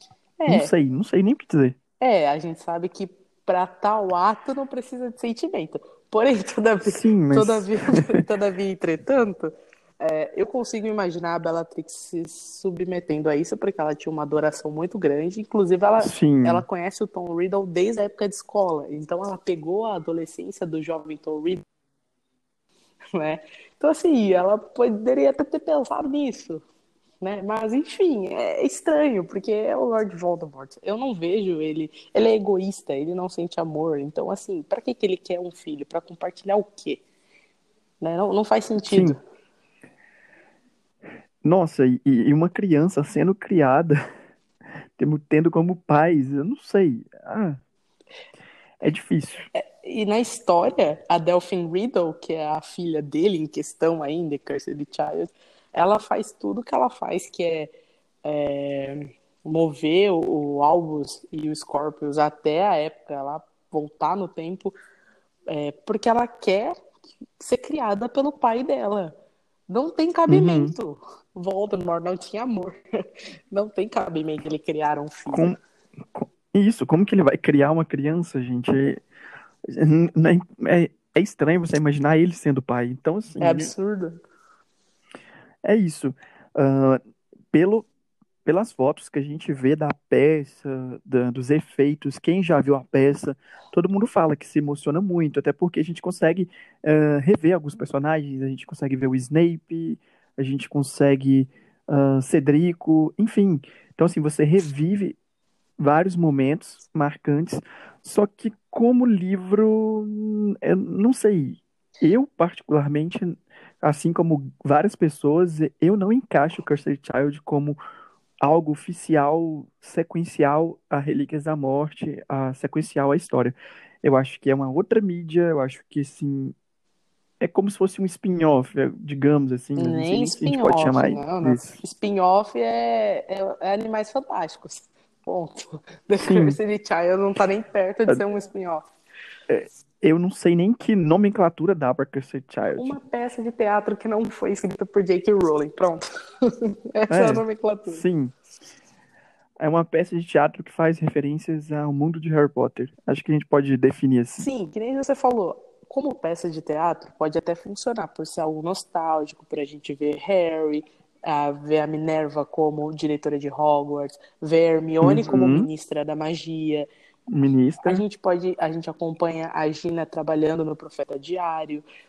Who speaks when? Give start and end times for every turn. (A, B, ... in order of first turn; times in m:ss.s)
0:00.4-0:00.7 A
0:00.5-0:01.8 B
0:02.0-0:21.6 A
0:06.9-0:08.2 B
0:16.0-0:16.6 B
0:23.1-0:26.6 A
0:27.2-0:37.0 A
0:38.0-0:39.2 A
0:38.9-0:39.2 B
0:41.4-0:44.0 B
0:45.0-0:47.6 B
0:48.8-0:49.4 B
0:49.5-0:57.7 A
0:58.2-1:04.7 A
1:05.5-1:06.8 A
1:07.4-1:09.1 A
1:09.7-1:12.8 A
1:10.3-1:10.7 B
1:13.5-1:15.6 A
1:15.3-1:15.6 B
1:16.1-1:19.0 B
1:19.7-1:23.7 B
1:23.4-1:24.2 A
1:25.6-1:27.0 B
1:27.5-1:27.9 B
1:28.4-1:45.2 B
1:45.8-1:57.8 B
1:58.4-2:06.5 B
2:07.4-2:11.7 B
2:09.8-2:18.9 A
2:16.2-2:16.6 B
2:19.5-2:22.9 B
2:22.8-2:28.0 A
2:27.1-2:28.3 B
2:29.6-2:34.4 B
2:34.4-2:46.9 A
2:45.0-2:45.7 B
2:47.3-2:48.0 B
2:47.8-2:51.8 A